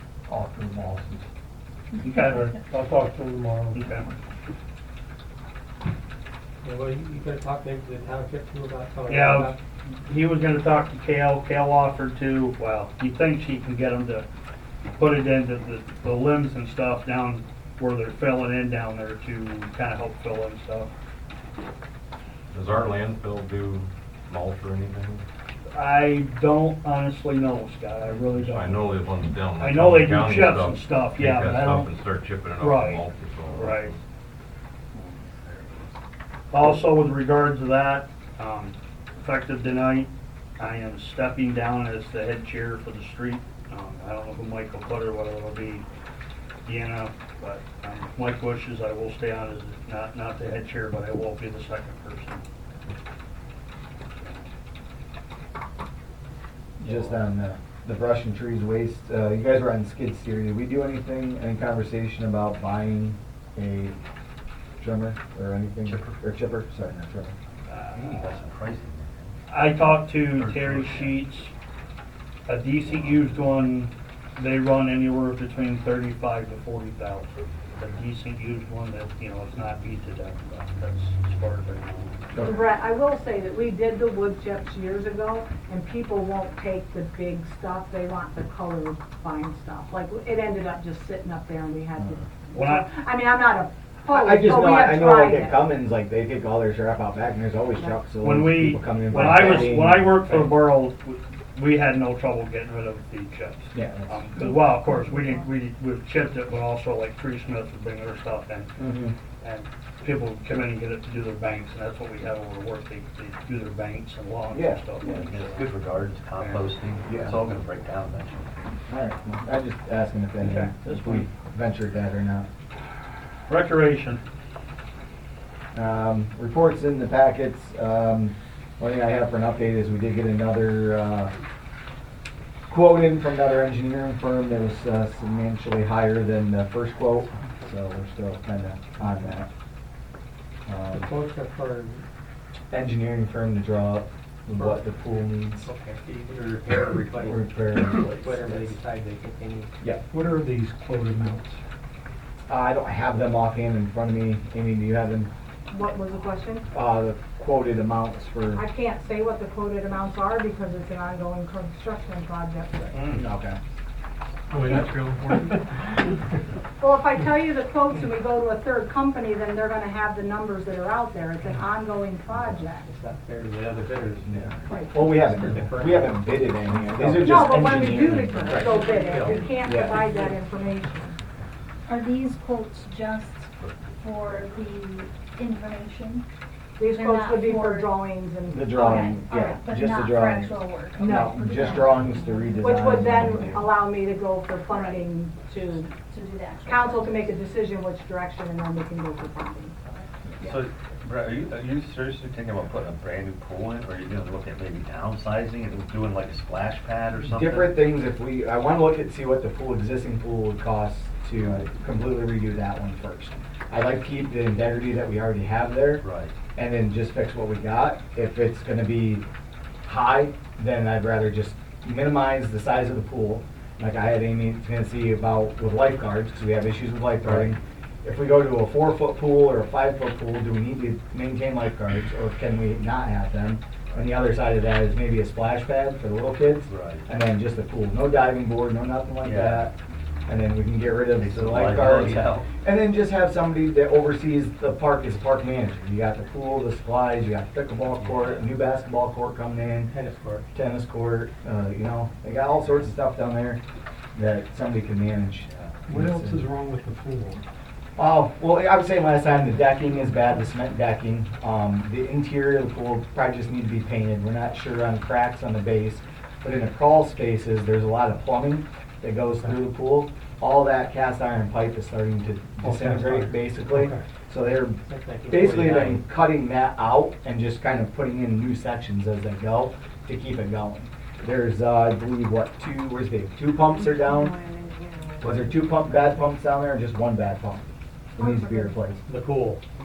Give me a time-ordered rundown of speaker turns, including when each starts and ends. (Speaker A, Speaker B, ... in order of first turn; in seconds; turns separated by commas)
Speaker A: 0.3-1.2, Speaker B: 2.0-2.5, Speaker A: 2.2-4.0, Speaker B: 3.7-4.1, Speaker C: 6.6-9.6, Speaker B: 9.1-14.2, Speaker B: 15.0-20.9, Speaker D: 22.5-25.2, Speaker B: 25.7-29.0, Speaker D: 28.3-34.0, Speaker B: 29.6-31.9, Speaker B: 32.6-33.9, Speaker B: 36.5-45.8, Speaker B: 46.6-52.4, Speaker E: 56.8-64.0, Speaker F: 56.8-57.1, Speaker E: 64.8-67.3, Speaker F: 65.8-66.2, Speaker B: 67.7-68.4, Speaker F: 67.7-69.3, Speaker B: 69.5-71.5, Speaker F: 70.3-71.2, Speaker B: 72.5-82.2, Speaker F: 72.8-73.3, Speaker E: 82.3-82.6, Speaker G: 82.4-95.7, Speaker B: 92.5-92.9, Speaker E: 94.1-100.5, Speaker B: 98.2-108.7, Speaker G: 99.2-99.7, Speaker E: 103.7-104.3, Speaker E: 108.8-109.1, Speaker B: 109.4-115.7, Speaker E: 114.5-114.8, Speaker H: 115.0-115.2, Speaker F: 115.0-118.7, Speaker B: 116.4-116.7, Speaker E: 117.0-117.4, Speaker E: 118.9-122.5, Speaker B: 120.4-121.3, Speaker B: 123.5-124.2, Speaker E: 125.7-131.3, Speaker E: 132.7-139.5, Speaker E: 140.7-141.1, Speaker C: 140.9-142.0, Speaker E: 142.7-145.6, Speaker C: 145.6-149.7, Speaker E: 147.1-148.7, Speaker A: 150.1-151.6, Speaker E: 152.5-155.3, Speaker G: 155.7-156.7, Speaker E: 156.7-158.6, Speaker G: 158.5-163.0, Speaker B: 162.9-163.2, Speaker E: 163.1-163.6, Speaker A: 164.5-165.8, Speaker G: 166.8-172.9, Speaker C: 172.8-176.3, Speaker E: 174.2-180.1, Speaker G: 174.7-174.9, Speaker A: 175.3-175.6, Speaker C: 176.8-177.5, Speaker G: 177.1-181.2, Speaker C: 178.5-179.5, Speaker H: 181.9-186.2, Speaker F: 183.6-184.5, Speaker G: 186.8-189.6, Speaker H: 186.9-188.1, Speaker E: 188.5-193.7, Speaker H: 188.7-192.7, Speaker G: 191.0-192.0, Speaker G: 192.6-195.9, Speaker H: 194.7-195.1, Speaker H: 196.0-197.3, Speaker G: 196.7-199.8, Speaker F: 200.4-207.8, Speaker E: 207.2-219.2, Speaker F: 216.0-216.3, Speaker E: 219.8-239.7, Speaker F: 227.2-227.5, Speaker F: 233.9-234.1, Speaker F: 236.7-237.1, Speaker F: 239.2-239.7, Speaker E: 240.3-249.9, Speaker F: 241.1-242.5, Speaker F: 248.0-248.4, Speaker C: 249.9-250.4, Speaker E: 250.5-253.6, Speaker E: 254.1-256.5, Speaker F: 255.5-255.8, Speaker A: 255.9-257.4, Speaker E: 258.0-284.3, Speaker C: 272.6-273.3, Speaker A: 273.6-274.0, Speaker C: 274.9-276.0, Speaker E: 285.2-289.0, Speaker G: 288.2-288.7, Speaker C: 289.1-289.6